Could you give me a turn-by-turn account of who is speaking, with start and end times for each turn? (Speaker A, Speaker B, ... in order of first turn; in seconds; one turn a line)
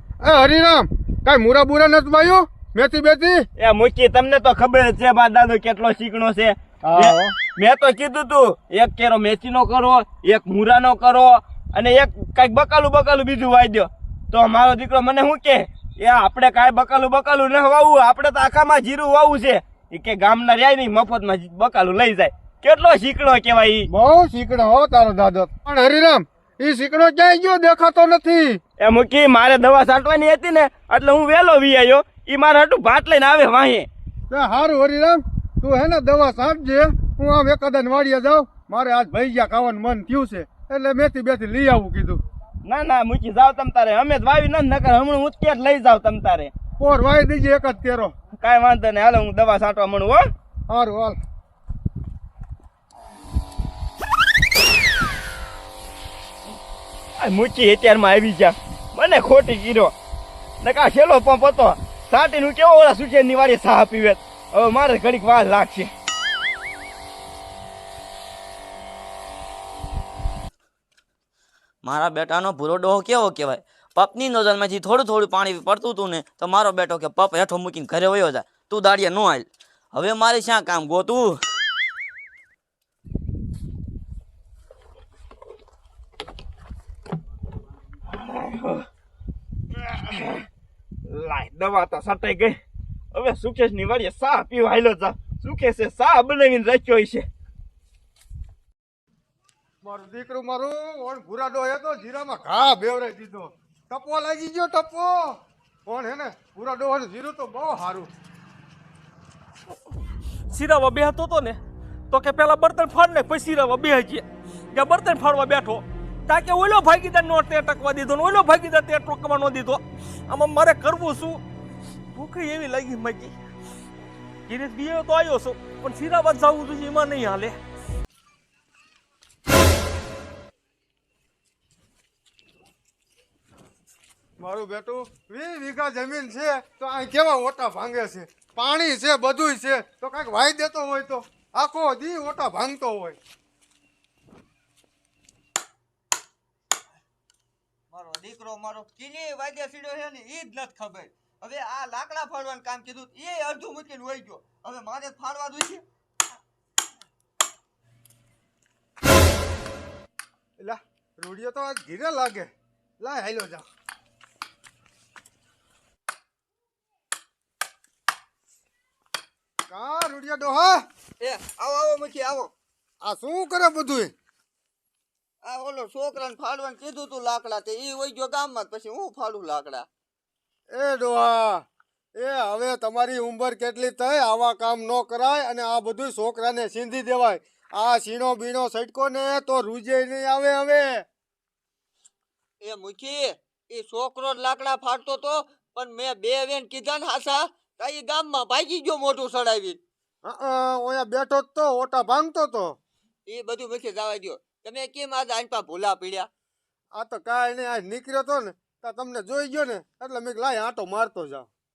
Speaker A: 0.2-3.4
Speaker B: 3.6-23.9
Speaker A: 6.8-7.3
Speaker A: 23.9-28.6
Speaker B: 28.8-33.9
Speaker A: 34.3-42.2
Speaker B: 42.6-46.5
Speaker A: 46.8-48.1
Speaker B: 48.3-50.3
Speaker A: 50.7-51.2
Speaker B: 57.2-59.9
Speaker B: 60.6-65.9
Speaker C: 71.8-81.4
Speaker B: 88.1-88.8
Speaker B: 89.7-90.4
Speaker B: 91.0-92.6
Speaker B: 93.1-97.2
Speaker A: 99.8-108.1
Speaker D: 110.5-111.6
Speaker D: 112.1-121.4
Speaker D: 122.1-123.3
Speaker D: 124.5-127.5
Speaker A: 134.4-143.2
Speaker E: 147.9-155.8
Speaker A: 160.6-163.7
Speaker A: 169.7-170.8
Speaker E: 171.2-172.5
Speaker A: 173.0-174.1
Speaker E: 175.4-179.9
Speaker A: 180.7-181.6
Speaker A: 182.2-191.0
Speaker E: 192.6-199.8
Speaker A: 200.2-202.7
Speaker E: 203.3-206.3
Speaker A: 206.9-211.5